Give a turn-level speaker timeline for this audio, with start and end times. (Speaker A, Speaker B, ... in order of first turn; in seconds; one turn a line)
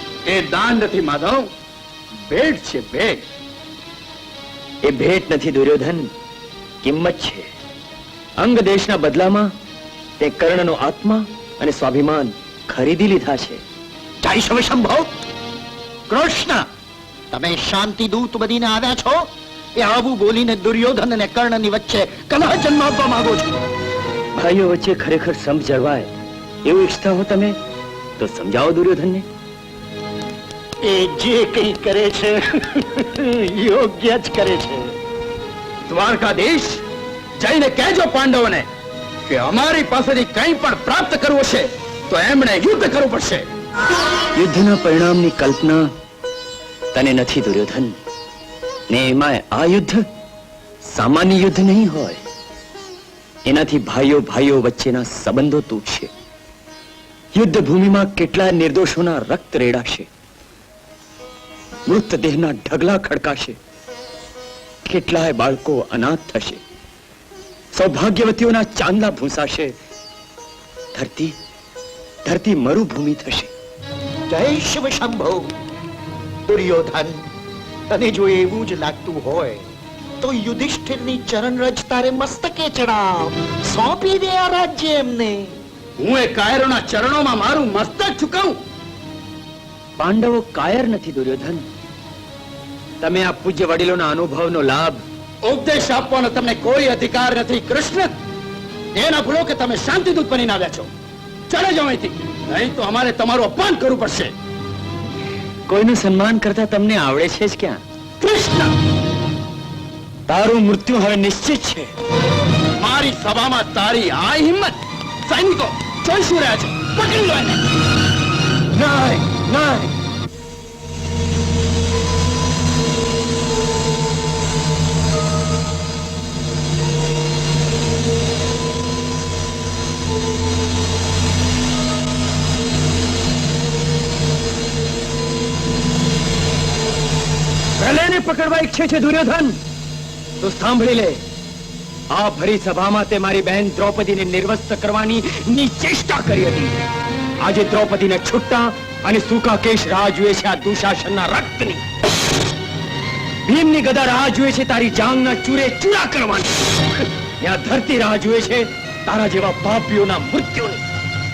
Speaker A: 0.3-1.5
Speaker A: 2.3-3.2
Speaker B: 4.8-6.1
Speaker B: 6.8-7.5
Speaker B: 8.4-9.5
Speaker B: 10.2-13.6
Speaker C: 14.2-15.0
Speaker C: 16.1-16.6
Speaker C: 17.3-19.2
Speaker C: 19.8-23.5
Speaker B: 24.4-26.1
Speaker B: 26.6-27.6
Speaker B: 28.2-29.2
Speaker C: 30.9-32.4
Speaker C: 33.6-34.7
Speaker A: 35.9-36.7
Speaker A: 37.4-38.6
Speaker A: 39.3-43.4
Speaker B: 44.4-45.9
Speaker B: 46.9-48.0
Speaker B: 48.9-50.0
Speaker B: 50.9-52.2
Speaker B: 53.5-56.1
Speaker B: 57.4-60.1
Speaker B: 61.9-63.6
Speaker B: 64.9-66.6
Speaker B: 67.7-69.7
Speaker B: 70.9-71.3
Speaker B: 72.2-73.5
Speaker C: 74.3-75.5
Speaker C: 76.5-77.2
Speaker C: 77.9-79.6
Speaker C: 80.2-85.5
Speaker A: 86.0-88.5
Speaker B: 90.0-91.6
Speaker B: 93.0-95.0
Speaker A: 95.5-98.1
Speaker A: 99.0-100.9
Speaker A: 101.5-104.3
Speaker B: 105.7-107.8
Speaker A: 108.2-108.7
Speaker B: 110.3-111.9
Speaker A: 112.8-114.8
Speaker A: 115.3-117.6
Speaker B: 118.8-119.8
Speaker B: 137.8-139.6
Speaker B: 140.4-141.2
Speaker B: 142.1-146.9
Speaker B: 147.4-151.8
Speaker B: 153.5-156.5
Speaker B: 157.4-160.8